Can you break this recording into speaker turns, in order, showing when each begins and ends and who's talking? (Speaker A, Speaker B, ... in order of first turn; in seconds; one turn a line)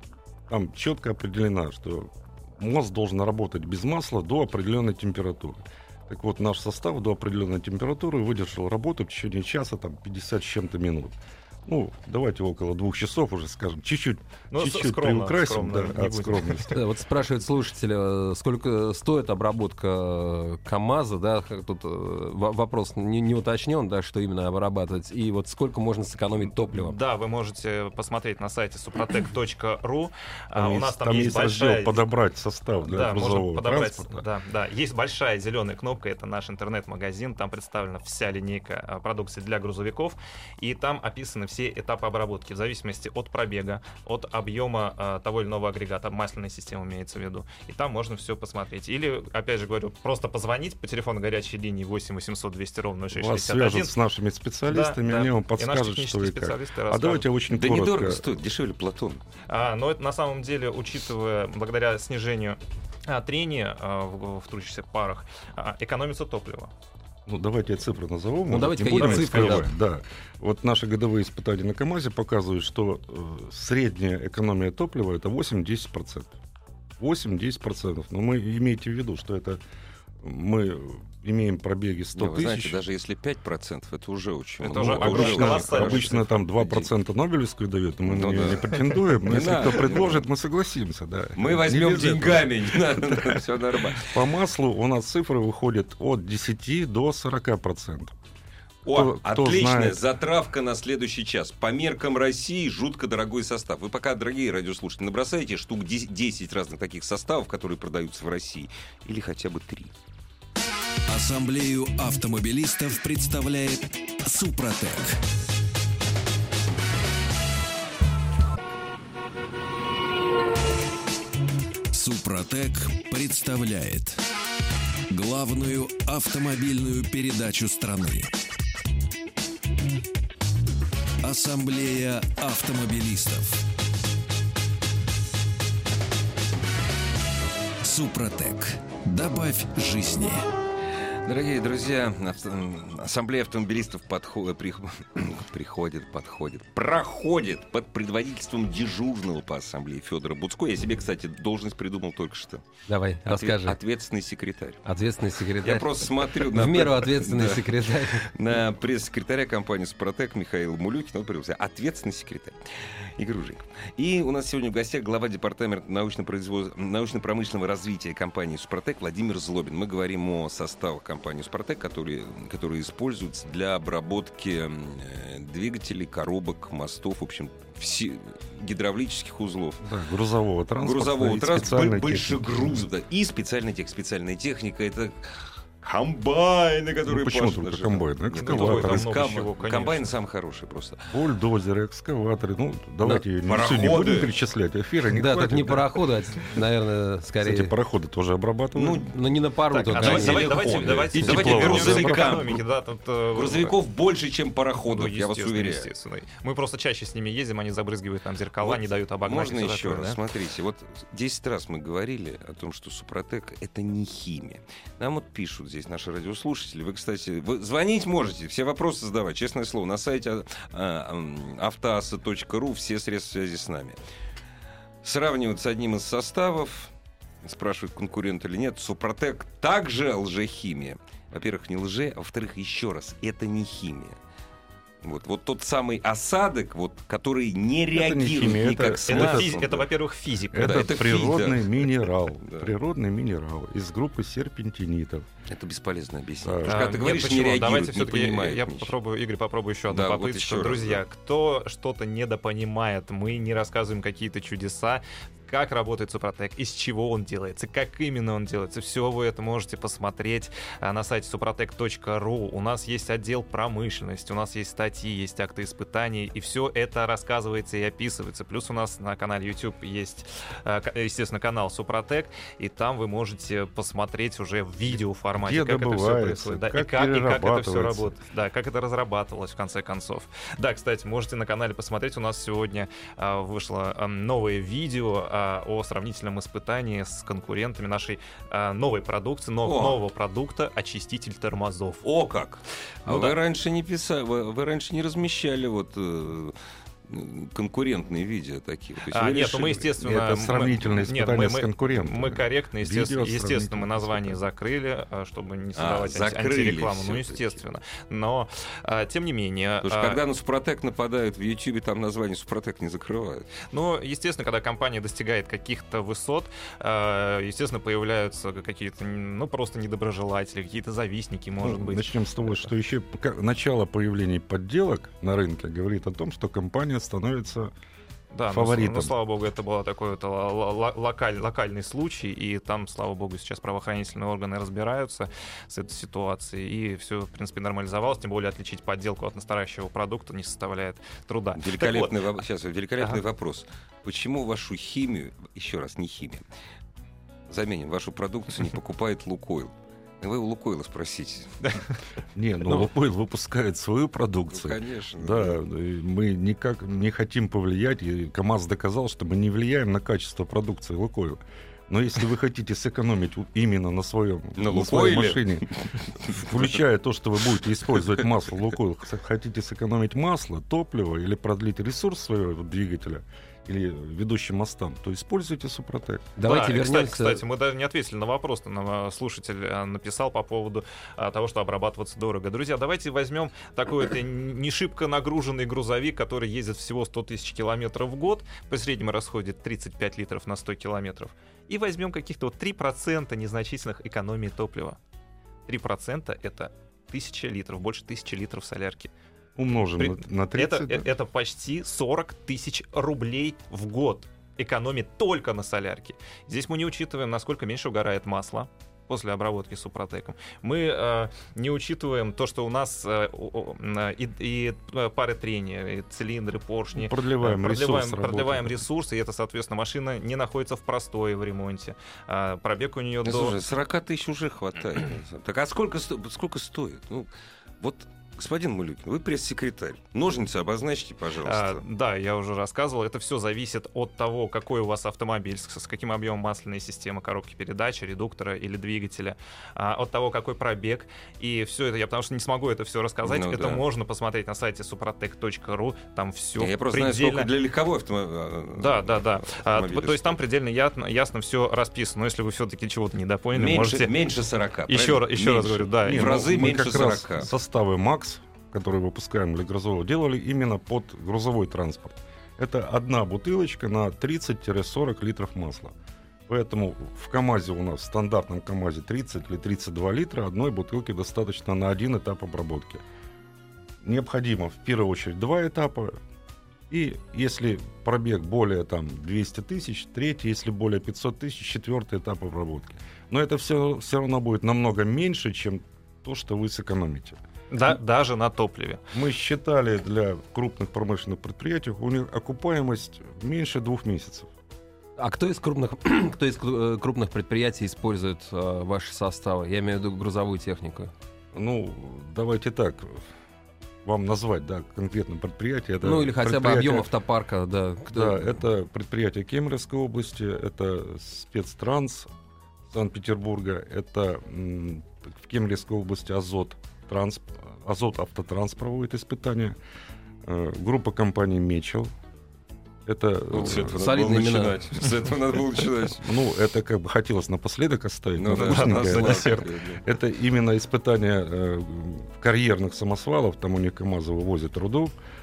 Speaker A: 0.5-16.8
Speaker B: 14.5-16.7
Speaker C: 16.7-27.0
Speaker B: 26.6-32.0
Speaker A: 30.5-34.2
Speaker B: 32.8-54.0
Speaker A: 53.1-58.2
Speaker B: 54.7-57.3
Speaker D: 57.5-59.2
Speaker B: 59.5-66.7
Speaker A: 67.3-76.4
Speaker C: 68.5-69.7
Speaker B: 69.0-69.7
Speaker A: 77.0-79.6
Speaker A: 80.2-82.8
Speaker D: 82.2-86.9
Speaker B: 84.6-86.2
Speaker A: 84.8-98.2
Speaker D: 88.1-88.7
Speaker D: 89.2-90.3
Speaker D: 91.4-94.2
Speaker D: 98.8-109.9
Speaker A: 98.9-100.0
Speaker E: 111.1-115.2
Speaker E: 121.9-124.2
Speaker E: 125.1-128.3
Speaker E: 131.2-133.6
Speaker E: 137.8-140.4
Speaker D: 141.0-152.6
Speaker C: 152.9-153.8
Speaker D: 153.3-154.9
Speaker C: 154.9-158.3
Speaker D: 155.6-179.8
Speaker A: 179.8-182.8
Speaker D: 180.8-191.1
Speaker A: 187.1-189.1
Speaker B: 188.4-190.0
Speaker A: 191.1-196.0
Speaker D: 193.4-194.3
Speaker C: 195.1-197.7
Speaker A: 197.4-199.1
Speaker D: 198.8-199.1
Speaker C: 199.0-201.4
Speaker B: 199.7-203.7
Speaker D: 199.9-202.6
Speaker A: 201.2-202.4
Speaker D: 203.3-205.9
Speaker B: 204.9-210.2
Speaker D: 208.6-224.0
Speaker D: 225.0-226.9
Speaker D: 227.4-234.2
Speaker D: 235.0-239.9
Speaker A: 237.9-239.6
Speaker B: 239.1-241.3
Speaker A: 240.5-245.3
Speaker D: 240.6-242.7
Speaker D: 245.5-248.9
Speaker A: 246.4-246.8
Speaker B: 246.7-292.0
Speaker D: 249.9-251.0
Speaker A: 275.4-278.2
Speaker D: 289.6-290.0
Speaker D: 292.0-296.6
Speaker B: 293.1-293.4
Speaker D: 297.1-299.9
Speaker B: 299.1-310.2
Speaker A: 300.0-304.4
Speaker D: 305.8-307.6
Speaker D: 309.8-313.5
Speaker B: 313.7-322.7
Speaker A: 321.6-327.7
Speaker B: 328.3-342.2
Speaker A: 328.5-329.1
Speaker D: 341.6-346.4
Speaker D: 347.5-351.7
Speaker A: 352.4-365.7
Speaker D: 354.5-355.6
Speaker D: 364.6-366.6
Speaker A: 366.3-376.3
Speaker C: 376.4-377.4
Speaker B: 376.4-395.0
Speaker B: 395.7-399.1
Speaker A: 399.6-401.1
Speaker B: 400.0-423.6
Speaker A: 416.9-418.8
Speaker D: 423.2-431.8
Speaker B: 431.4-447.5
Speaker D: 443.2-443.8
Speaker D: 446.6-450.4
Speaker B: 448.8-454.1
Speaker D: 453.5-457.5
Speaker B: 454.9-456.4
Speaker A: 456.1-465.9
Speaker A: 466.5-473.0
Speaker A: 474.0-476.2
Speaker A: 476.9-487.4
Speaker B: 487.7-489.0
Speaker A: 489.1-494.5
Speaker C: 495.2-501.1
Speaker A: 501.5-503.2
Speaker A: 504.1-507.1
Speaker C: 506.0-508.6
Speaker A: 508.1-512.3
Speaker A: 512.9-519.8
Speaker A: 520.4-522.1
Speaker A: 523.1-524.0
Speaker D: 523.5-526.3
Speaker C: 523.8-524.8
Speaker A: 526.2-535.1
Speaker D: 528.4-530.0
Speaker B: 528.5-529.7